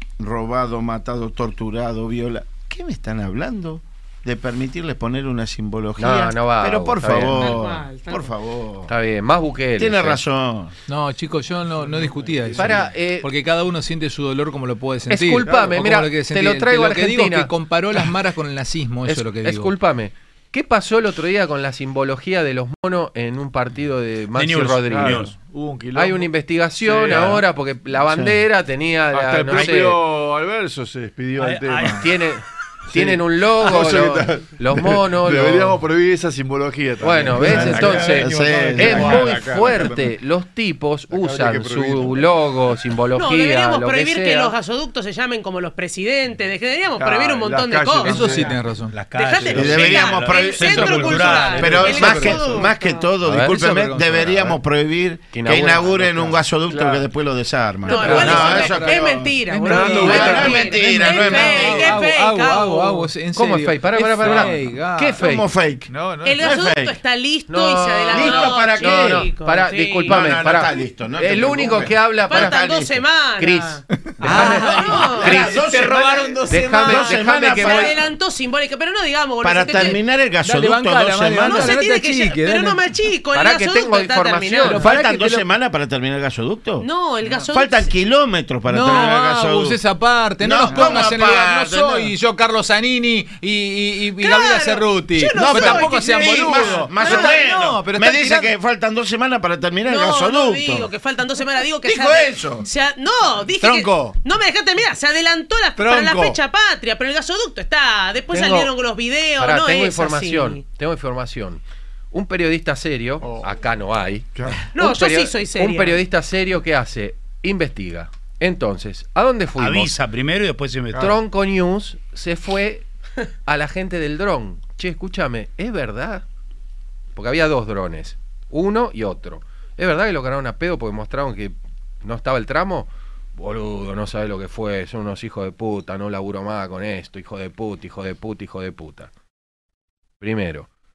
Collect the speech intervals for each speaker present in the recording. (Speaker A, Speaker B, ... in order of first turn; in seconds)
Speaker A: 0.2-8.9, 9.8-10.7, 28.0-28.4, 37.4-39.4, 49.5-62.0, 65.2-67.0, 68.1-69.3, 70.1-73.0, 74.3-78.0, 79.4-81.8, 84.7-86.9, 87.5-89.8, 90.4-92.1, 95.4-100.9, 101.8-102.7
Speaker B: 6.0-7.5, 8.9-10.2, 12.6-13.3, 15.1-17.5, 19.1-25.2, 25.9-30.0, 31.8-35.8, 37.0-44.5, 53.2-53.5, 55.3-56.0, 58.0-58.4, 63.3-65.5, 67.5-72.6, 73.4-75.6, 76.5-78.0, 83.3-84.9, 108.3-108.7, 109.4-120.0, 120.9-122.8, 123.5-126.2, 127.2-139.1, 140.2-140.7
Speaker C: 7.3-8.3, 43.1-48.5, 49.1-53.0, 57.9-63.1, 66.2-70.2, 72.3-80.0, 81.4-84.9, 86.8-87.9, 94.2-97.5, 99.9-110.6, 114.7-116.0
Speaker D: 10.9-19.7, 48.0-49.0, 51.6-52.4, 53.3-54.6, 57.9-65.2, 74.2-75.2, 80.4-82.8, 84.8-85.5, 88.7-98.5, 103.6-104.2, 105.8-106.4
Speaker E: 11.8-12.8, 24.8-26.3, 26.8-27.4, 29.1-32.0, 32.9-40.1, 41.1-42.3, 47.0-48.6, 51.3-51.9, 56.8-57.0, 59.7-60.6, 65.9-66.5, 113.2-113.5, 114.3-114.7
Speaker F: 24.3-25.3, 31.4-32.1, 48.9-52.4, 119.6-121.1